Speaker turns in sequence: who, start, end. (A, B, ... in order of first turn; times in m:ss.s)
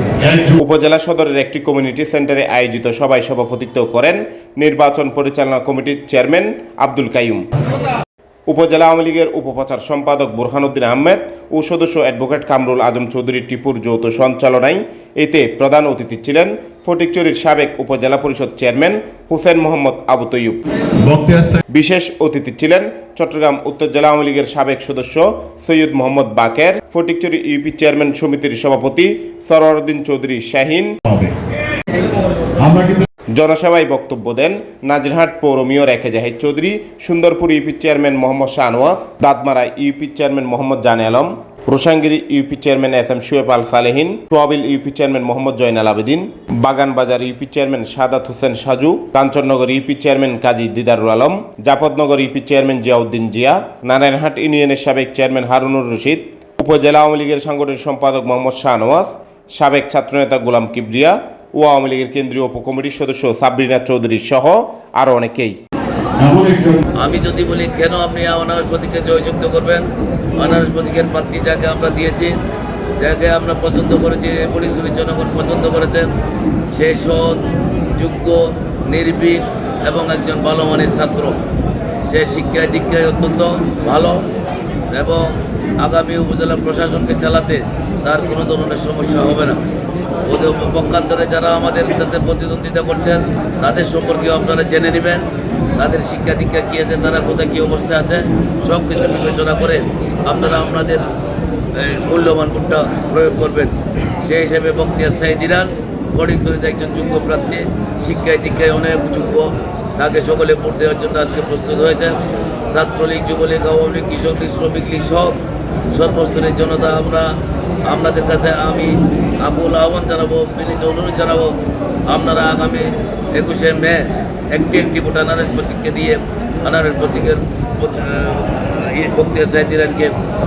0:00.2-0:00.5 A
0:00.4-0:07.4 B
0:08.5-0:20.6 B
0:21.0-0:21.6 A
0:21.7-0:31.0 B
0:31.1-0:31.3 A
0:32.6-0:33.1 A
0:33.3-1:05.6 B
1:06.2-1:06.8 A
1:07.0-1:12.4 C
1:13.0-1:16.1 C
1:16.7-1:21.4 C
1:22.0-1:24.3 C
1:24.9-1:29.6 C
1:30.2-1:41.1 C
1:41.7-1:55.4 C
1:55.9-2:10.1 C